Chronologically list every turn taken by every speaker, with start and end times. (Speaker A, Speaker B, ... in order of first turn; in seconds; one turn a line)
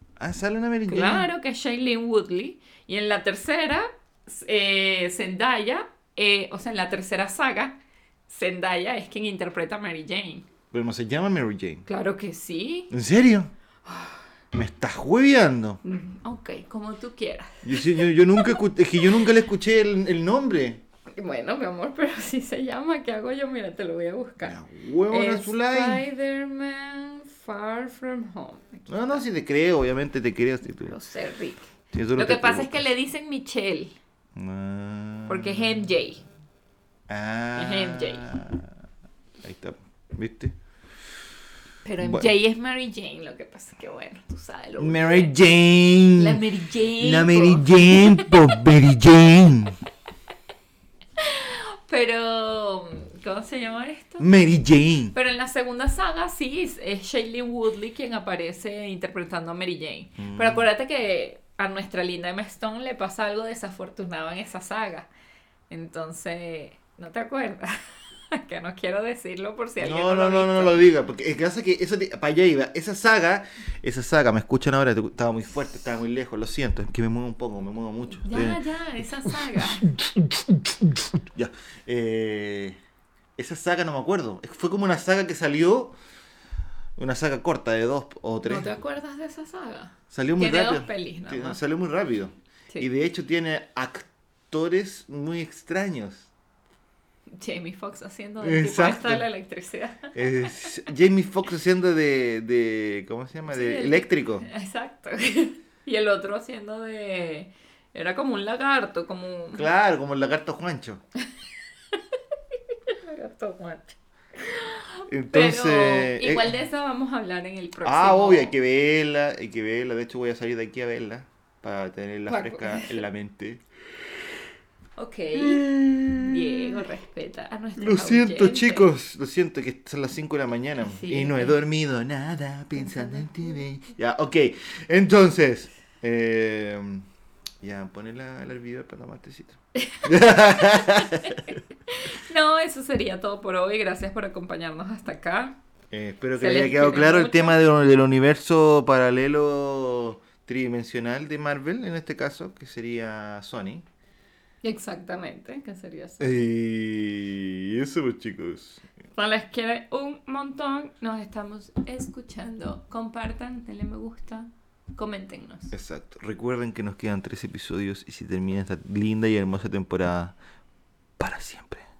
Speaker A: 0.2-1.3
Speaker B: 0.9-10.4
Speaker A: 10.7-11.8
Speaker B: 11.8-12.9
Speaker A: 12.9-13.5
Speaker B: 13.8-14.2
Speaker A: 14.5-15.8
Speaker B: 15.8-18.0
Speaker A: 17.6-20.8
Speaker B: 21.1-29.2
Speaker A: 24.4-26.0
Speaker A: 28.9-30.9
Speaker B: 30.8-33.9
Speaker A: 31.9-32.9
Speaker A: 34.4-35.9
Speaker B: 35.3-36.2
Speaker A: 37.1-38.7
Speaker B: 37.5-38.3
Speaker A: 39.4-40.5
Speaker B: 41.8-45.3
Speaker A: 42.0-42.3
Speaker A: 44.8-46.4
Speaker B: 46.1-48.4
Speaker A: 47.0-49.8
Speaker B: 51.2-54.2
Speaker A: 54.2-55.1
Speaker B: 55.1-65.1
Speaker A: 60.2-60.6
Speaker B: 65.7-70.9
Speaker A: 69.8-78.6
Speaker B: 78.2-79.9
Speaker A: 79.2-82.8
Speaker A: 83.4-86.0
Speaker A: 87.0-88.7
Speaker B: 88.4-91.6
Speaker A: 90.1-96.3
Speaker B: 97.4-100.7
Speaker A: 98.4-99.2
Speaker A: 100.1-104.5
Speaker B: 103.5-109.7
Speaker A: 109.5-111.0
Speaker B: 112.9-118.5
Speaker A: 115.1-116.5
Speaker A: 117.8-123.6
Speaker B: 122.3-123.0
Speaker B: 125.0-128.9
Speaker A: 125.3-126.8
Speaker A: 127.8-137.0
Speaker B: 130.8-131.6
Speaker B: 132.8-133.6
Speaker A: 137.6-141.6
Speaker B: 139.8-140.1
Speaker B: 140.7-145.6
Speaker A: 145.9-153.8
Speaker B: 146.4-147.6
Speaker B: 154.6-156.4
Speaker A: 156.2-158.8
Speaker B: 159.1-165.7
Speaker A: 165.7-170.3
Speaker A: 171.2-171.8